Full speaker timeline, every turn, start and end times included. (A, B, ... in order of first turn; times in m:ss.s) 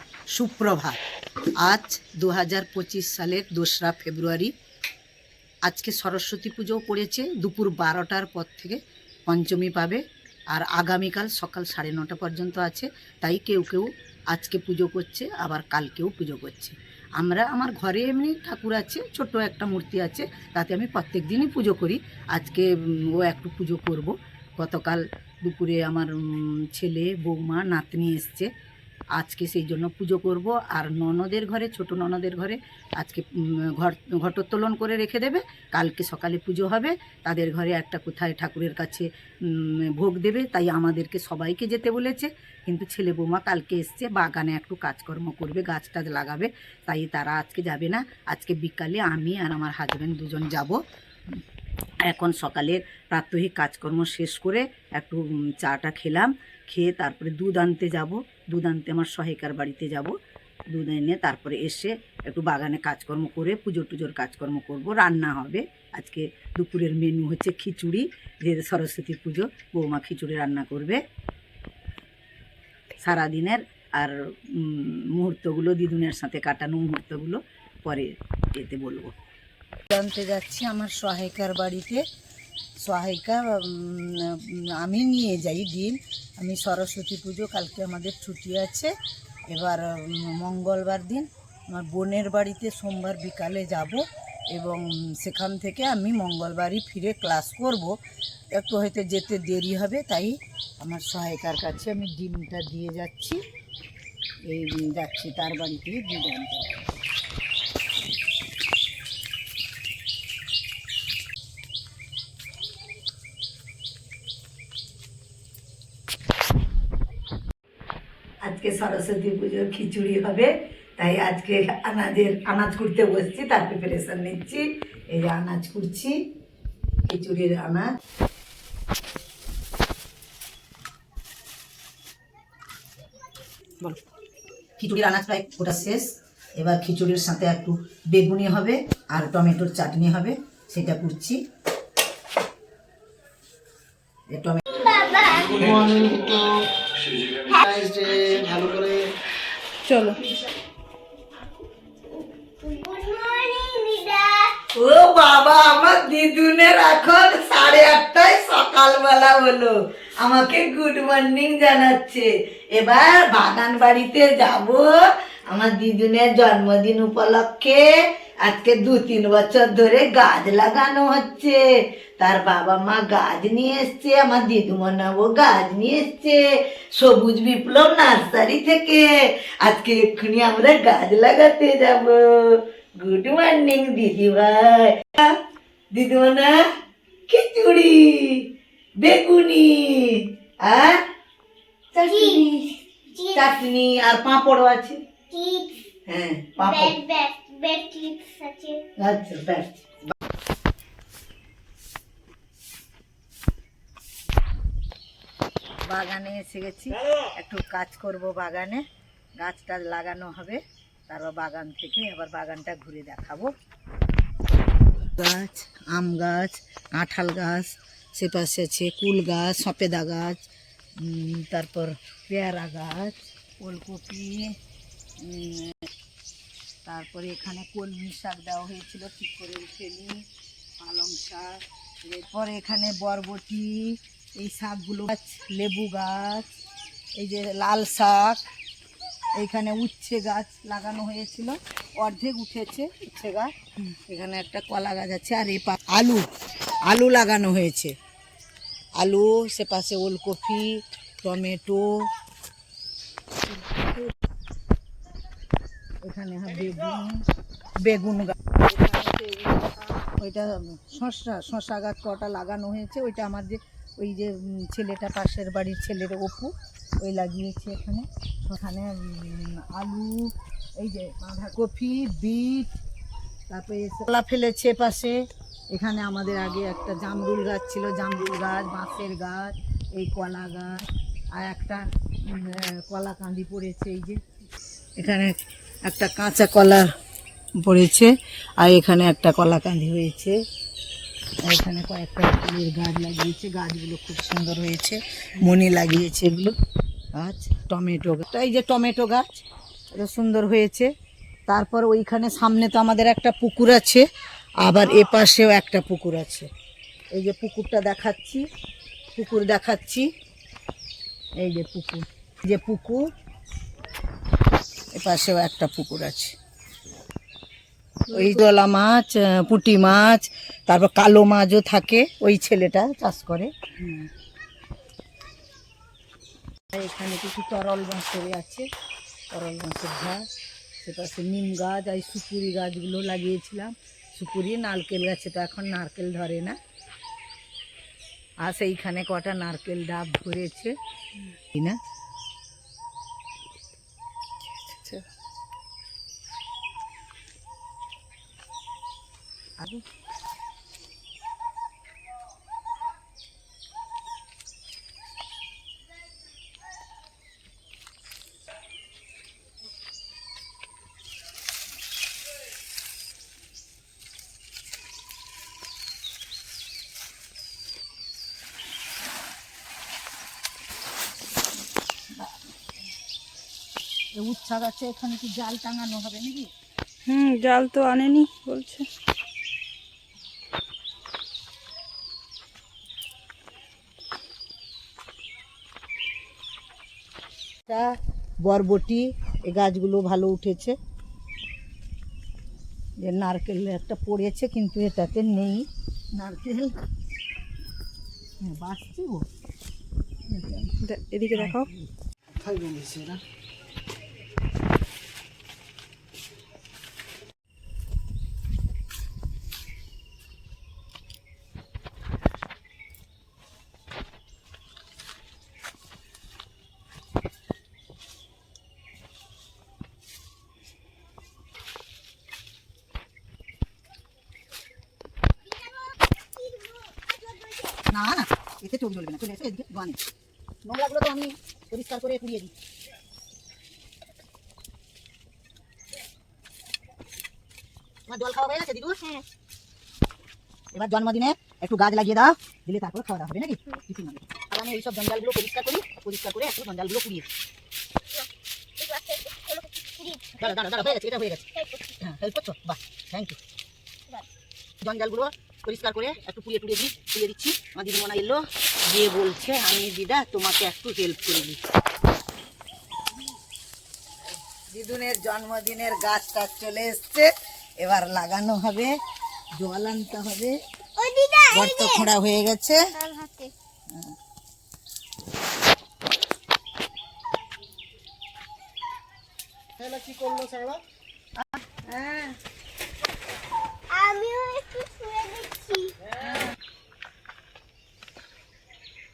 0:00.3-0:01.0 A
0:01.6-0:04.5 A
0:05.6-0:28.5 A
0:29.2-0:50.8 A
0:52.0-1:00.1 A
1:00.7-1:11.0 A
1:13.0-1:19.1 A
1:19.9-1:22.0 A
1:22.8-1:28.9 A
1:29.5-1:38.0 A
1:38.5-1:43.4 A
1:44.5-1:46.9 A
1:58.4-2:06.2 A
2:07.1-2:07.9 A
2:14.8-2:21.4 A
2:24.3-2:25.0 A
2:24.8-2:25.5 B
2:25.5-2:26.6 C
2:27.2-2:29.1 C
2:29.8-2:30.2 D
2:32.6-2:34.6 B
2:34.7-2:45.0 A
2:45.5-2:47.9 A
2:48.4-2:51.6 A
2:52.2-3:05.4 A
3:05.9-3:06.6 A
3:07.3-3:08.5 A
3:09.0-3:11.0 A
3:11.9-3:12.8 A
3:12.1-3:12.4 B
3:13.2-3:13.5 B
3:13.3-3:15.0 A
3:15.3-3:15.8 B
3:16.1-3:17.0 A
3:16.6-3:18.8 B
3:19.0-3:20.1 A
3:25.8-3:28.8 A
3:29.4-3:33.5 A
3:35.2-3:40.4 A
3:41.0-3:44.5 A
3:45.2-3:45.9 A
3:46.9-3:50.2 A
3:50.8-3:56.5 A
3:57.2-3:58.4 A
3:59.4-4:06.3 A
4:06.9-4:07.9 A
4:09.0-4:12.1 A
4:13.5-4:14.1 A
4:16.0-4:17.2 A
4:17.8-4:32.8 A
4:33.5-4:35.2 A
4:35.7-4:44.2 A
4:45.0-4:46.9 A
4:47.6-4:50.4 A
4:51.5-4:56.5 A
4:57.2-5:00.9 A
5:01.5-5:04.0 A
5:04.6-5:06.5 A
5:07.1-5:08.4 A
5:09.2-5:10.1 A
5:11.4-5:13.1 A
5:14.9-5:16.4 A
5:18.1-5:24.1 A
5:26.7-5:28.7 A
5:29.3-5:30.2 A
5:30.8-5:36.6 A
5:38.4-5:40.7 A
5:41.4-5:41.8 A
5:44.6-5:45.1 D
5:49.6-5:49.8 A
6:14.1-6:16.5 A
6:17.1-6:18.9 D
6:27.7-6:27.9 A
6:28.4-6:30.8 A
6:33.0-6:36.8 A
6:38.4-6:39.3 A
6:40.3-6:40.8 A
6:40.8-6:41.7 D
6:41.3-6:41.9 A
6:42.3-6:43.2 C
7:05.4-7:07.8 B
7:07.9-7:10.0 A
7:10.6-7:12.5 A
7:18.1-7:19.0 A
7:20.7-7:27.3 A
7:28.8-7:30.8 B
7:30.4-7:31.4 A
7:31.5-7:32.0 B
7:32.0-7:33.4 A
7:34.8-7:41.6 A
7:44.7-7:48.9 A
7:49.6-7:50.6 A
7:51.0-7:52.1 B
7:51.5-7:52.9 A
7:52.9-7:53.5 B
7:59.8-8:00.8 C
8:01.4-8:02.4 A
8:03.9-8:06.0 B